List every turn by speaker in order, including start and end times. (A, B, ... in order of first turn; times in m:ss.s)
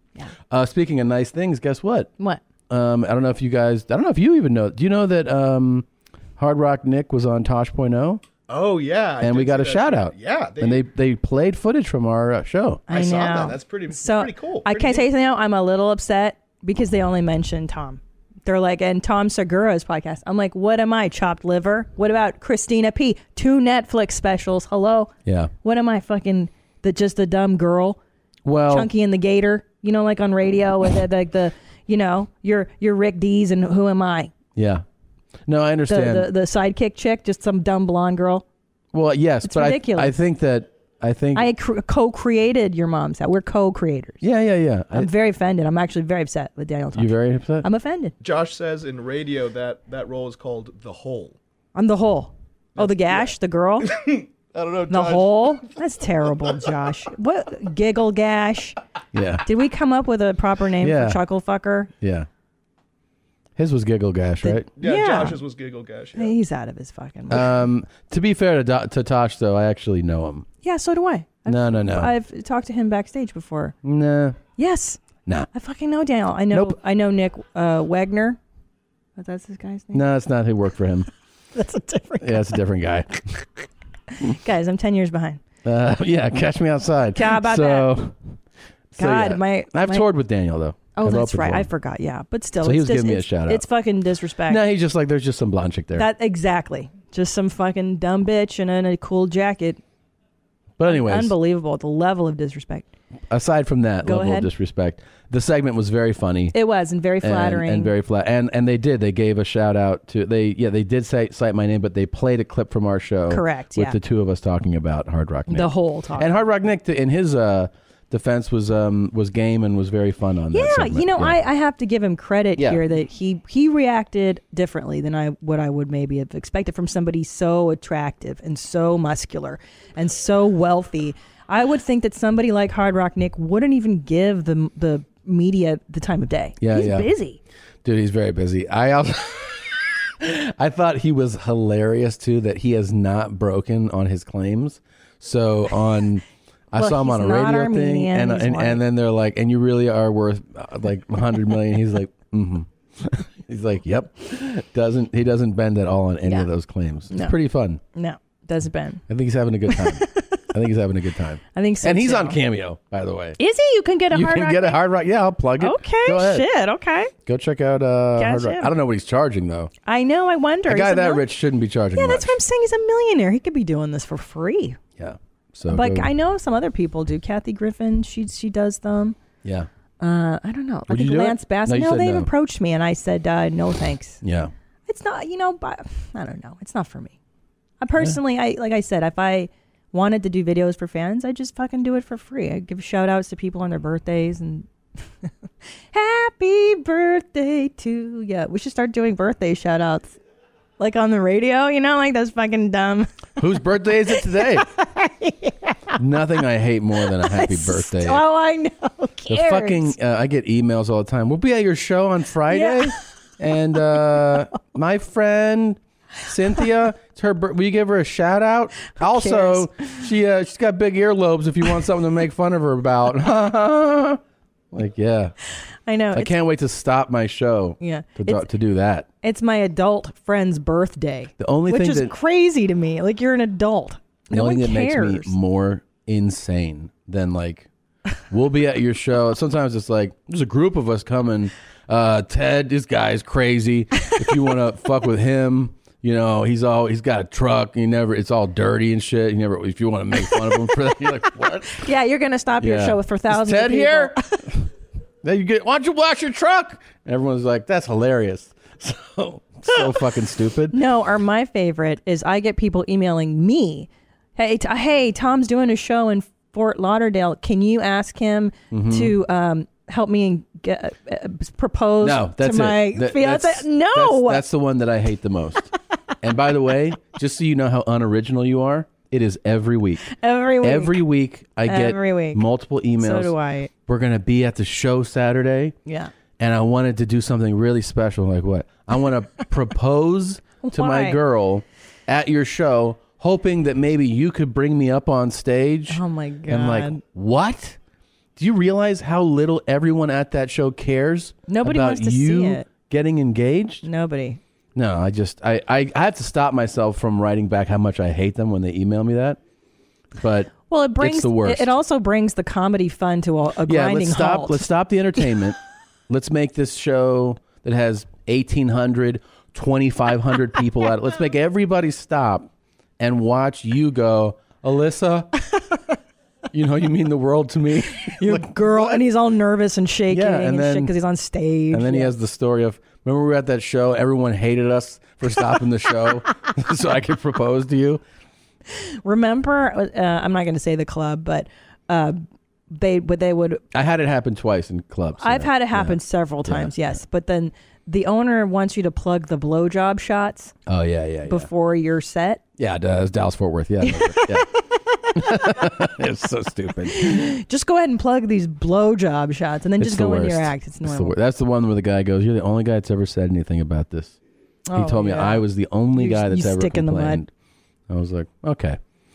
0:00.5-0:02.1 A
0:02.7-0:05.9 A
0:06.4-0:08.2 A
0:08.5-0:10.8 B
0:09.2-0:12.9 A
0:12.9-0:15.1 B
0:12.9-0:25.1 C
0:25.2-0:25.5 A
0:25.6-0:28.0 C
0:28.4-0:28.9 A
0:28.7-0:34.3 C
0:34.6-0:34.8 A
0:35.5-0:36.3 A
0:35.9-0:38.4 C
0:38.9-0:41.5 A
0:39.4-0:40.1 C
0:41.4-0:44.2 C
0:44.2-0:45.1 A
0:45.0-0:47.1 C
0:46.9-0:47.7 A
0:47.6-0:48.1 C
0:48.2-0:51.4 B
0:51.8-0:53.8 C
0:52.8-0:55.7 B
0:54.9-0:58.8 C
0:56.2-0:56.8 B
0:59.1-0:59.5 A
0:59.5-1:01.9 C
1:00.8-1:01.2 A
1:02.0-1:02.3 A
1:03.6-1:04.7 A
1:04.4-1:05.4 C
1:04.7-1:06.4 B
1:06.2-1:07.6 C
1:07.3-1:10.5 A
1:10.6-1:13.7 C
1:11.5-1:12.1 A
1:13.8-1:14.4 A
1:14.6-1:15.0 C
1:15.6-1:18.4 C
1:16.5-1:16.8 A
1:19.2-1:20.0 C
1:19.9-1:21.1 A
1:21.6-1:22.2 C
1:22.2-1:23.5 A
1:24.4-1:25.4 C
1:25.6-1:28.2 A
1:27.2-1:27.9 C
1:28.9-1:31.7 A
1:29.0-1:30.0 C
1:31.0-1:34.6 C
1:32.6-1:33.7 A
1:34.5-1:36.1 A
1:36.0-1:39.8 C
1:40.8-1:41.4 A
1:40.8-1:42.9 C
1:43.3-1:46.6 A
1:44.0-1:44.5 C
1:46.5-1:47.9 C
1:47.2-2:01.4 A
1:53.3-1:53.9 C
1:55.5-1:56.3 C
2:00.5-2:17.4 C
2:02.6-2:02.8 A
2:16.6-2:17.1 A
2:17.8-2:37.8 A
2:26.8-2:28.8 C
2:38.0-2:39.0 C
2:39.1-2:43.4 A
2:41.5-2:42.4 C
2:43.4-2:44.8 C
2:44.1-2:46.5 A
2:45.6-2:47.1 C
2:47.3-2:49.7 A
2:48.2-2:48.7 C
2:49.9-2:51.2 C
2:50.7-2:52.4 A
2:52.0-2:54.8 C
2:55.0-2:56.1 A
2:55.7-2:59.2 C
2:59.4-2:59.7 A
3:00.0-3:04.2 C
3:00.9-3:02.3 A
3:04.2-3:04.5 A
3:04.9-3:07.1 C
3:07.8-3:14.7 C
3:15.9-3:20.1 C
3:20.8-3:23.1 C
3:23.4-3:24.7 A
3:26.0-3:28.3 A
3:27.4-3:27.6 C
3:28.4-3:29.7 C
3:29.3-3:44.2 A
3:39.1-3:39.6 C
3:44.7-3:45.4 A
3:45.9-3:46.3 C
3:46.1-3:49.1 A
3:47.8-3:48.4 C
3:49.2-3:55.3 C
3:51.4-3:52.2 A
3:54.3-3:57.7 A
3:58.3-4:11.9 A
4:11.9-4:14.2 C
4:12.6-4:14.7 A
4:15.2-4:20.8 A
4:20.7-4:34.4 C
4:28.7-4:29.2 A
4:32.0-4:40.1 A
4:40.2-4:40.9 C
4:40.6-4:45.8 A
4:41.7-4:42.4 C
4:43.0-4:43.7 C
4:46.4-4:57.8 A
4:50.7-4:51.1 C
4:55.9-4:57.0 C
4:58.4-5:03.8 A
5:01.5-5:02.6 C
5:03.8-5:04.4 C
5:04.8-5:09.4 A
5:10.2-5:11.8 A
5:10.7-5:14.6 C
5:13.6-5:25.3 A
5:26.5-5:29.0 A
5:28.2-5:32.1 C
5:30.1-5:31.0 A
5:31.7-5:38.0 A
5:39.0-5:42.2 C
5:42.7-5:43.6 C
5:43.7-5:47.0 A
5:45.2-5:50.5 C
5:50.7-5:51.5 A
5:51.3-5:52.4 C
5:52.6-5:54.5 A
5:53.9-5:54.3 C
5:55.1-5:57.3 A
5:57.0-6:01.1 C
5:59.8-6:04.2 A
6:04.7-6:07.2 C
6:04.7-6:07.3 A
6:07.9-6:08.8 A